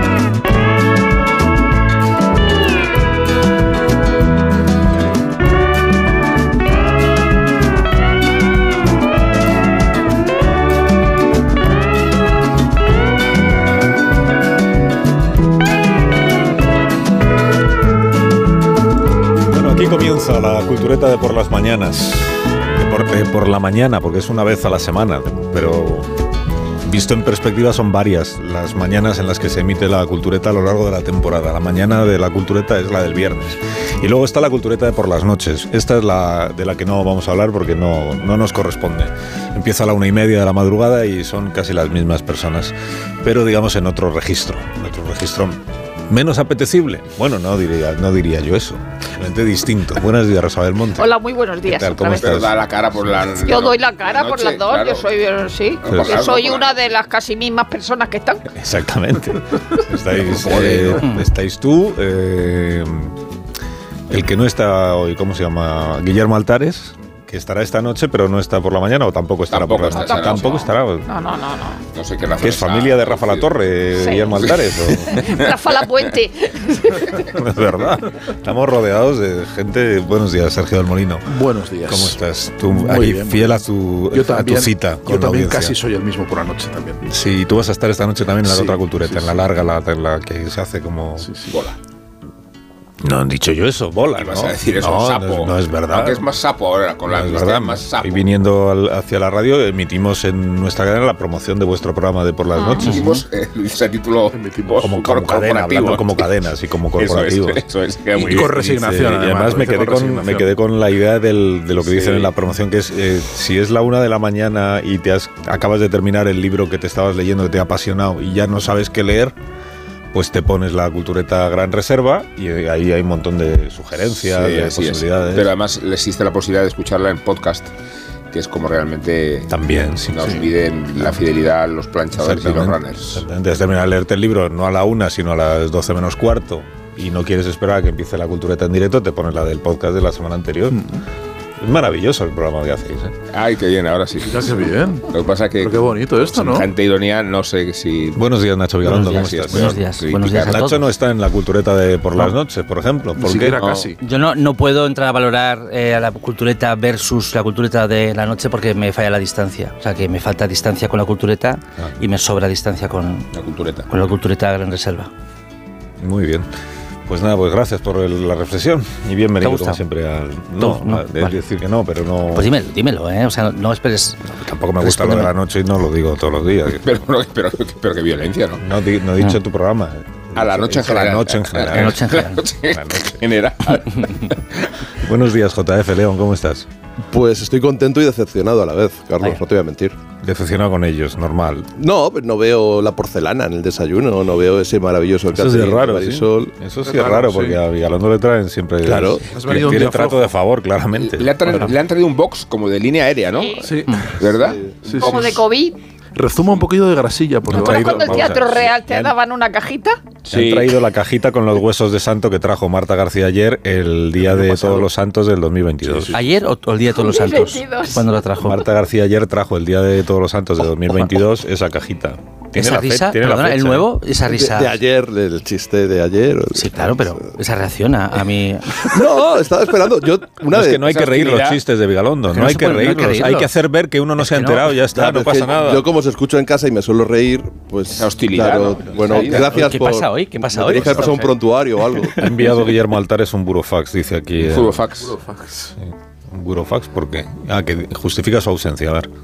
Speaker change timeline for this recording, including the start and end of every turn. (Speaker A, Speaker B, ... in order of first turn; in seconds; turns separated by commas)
Speaker A: 19.4-26.1, Speaker A: 26.8-51.1, Speaker B: 51.0-52.4, Speaker A: 51.7-52.6, Speaker C: 52.1-55.0, Speaker B: 53.4-58.5, Speaker C: 55.9-56.7, Speaker A: 55.9-56.2, Speaker A: 58.5-63.2, Speaker C: 60.2-61.0, Speaker D: 61.0-61.2, Speaker A: 64.1-71.1, Speaker C: 69.5-70.7, Speaker B: 69.9-71.8, Speaker C: 71.9-73.5, Speaker A: 72.4-75.4, Speaker B: 74.0-74.5, Speaker C: 74.4-75.5, Speaker B: 75.1-77.2, Speaker A: 77.3-81.3, Speaker E: 81.3-83.6, Speaker A: 81.9-85.8, Speaker E: 84.1-87.0, Speaker A: 87.0-91.3, Speaker E: 88.5-89.4, Speaker E: 91.2-91.6, Speaker C: 91.5-91.8, Speaker A: 93.0-96.2, Speaker C: 94.2-98.3, Speaker A: 97.1-103.1, Speaker C: 102.8-106.3, Speaker E: 104.3-104.9, Speaker A: 104.8-107.6, Speaker C: 107.0-108.5, Speaker E: 108.2-110.5, Speaker A: 108.2-119.3, Speaker A: 120.1-125.5, Speaker C: 124.3-127.7, Speaker C: 128.3-129.5, Speaker A: 129.5-131.2, Speaker C: 130.1-133.2, Speaker A: 132.1-140.9, Speaker E: 140.7-141.0, Speaker A: 141.6-143.2, Speaker C: 143.3-144.5, Speaker E: 144.2-146.7, Speaker C: 145.1-148.3, Speaker A: 148.2-149.8, Speaker D: 148.8-150.9, Speaker C: 148.9-150.7, Speaker A: 150.5-153.6, Speaker E: 153.2-154.0, Speaker C: 153.6-153.9, Speaker D: 154.0-163.3, Speaker C: 163.3-163.9, Speaker D: 163.9-165.1, Speaker A: 166.0-166.5, Speaker A: 167.1-172.5, Speaker D: 169.4-169.8, Speaker D: 170.6-171.4, Speaker D: 172.3-174.3, Speaker A: 174.3-176.9, Speaker D: 174.8-175.3, Speaker C: 176.8-178.6, Speaker A: 178.6-182.1, Speaker C: 180.4-184.7, Speaker D: 181.7-182.4, Speaker A: 182.7-183.2, Speaker A: 185.0-186.7, Speaker F: 187.1-190.0, Speaker A: 190.2-191.7, Speaker F: 191.8-196.5, Speaker A: 195.3-201.7, Speaker E: 196.8-197.6, Speaker F: 198.8-199.3, Speaker E: 199.2-200.3, Speaker C: 201.0-205.4, Speaker B: 203.3-203.7, Speaker E: 203.6-204.1, Speaker F: 204.3-204.8, Speaker E: 204.9-205.4, Speaker B: 205.0-205.8, Speaker E: 206.2-208.4, Speaker A: 207.5-209.1, Speaker B: 207.5-210.0, Speaker C: 210.3-210.8, Speaker A: 210.3-216.2, Speaker F: 214.4-214.8, Speaker D: 216.1-218.7, Speaker B: 216.9-218.1, Speaker A: 218.4-223.9, Speaker D: 222.5-224.8, Speaker F: 224.3-227.2, Speaker D: 226.6-229.0, Speaker F: 228.8-230.8, Speaker A: 230.5-235.9, Speaker C: 230.8-231.6, Speaker D: 232.3-233.5, Speaker D: 234.2-234.7, Speaker F: 234.9-242.2, Speaker C: 237.9-239.6, Speaker D: 239.1-241.3, Speaker A: 240.7-241.1, Speaker A: 242.2-244.8, Speaker C: 244.4-245.1, Speaker E: 245.0-245.7, Speaker A: 245.8-249.1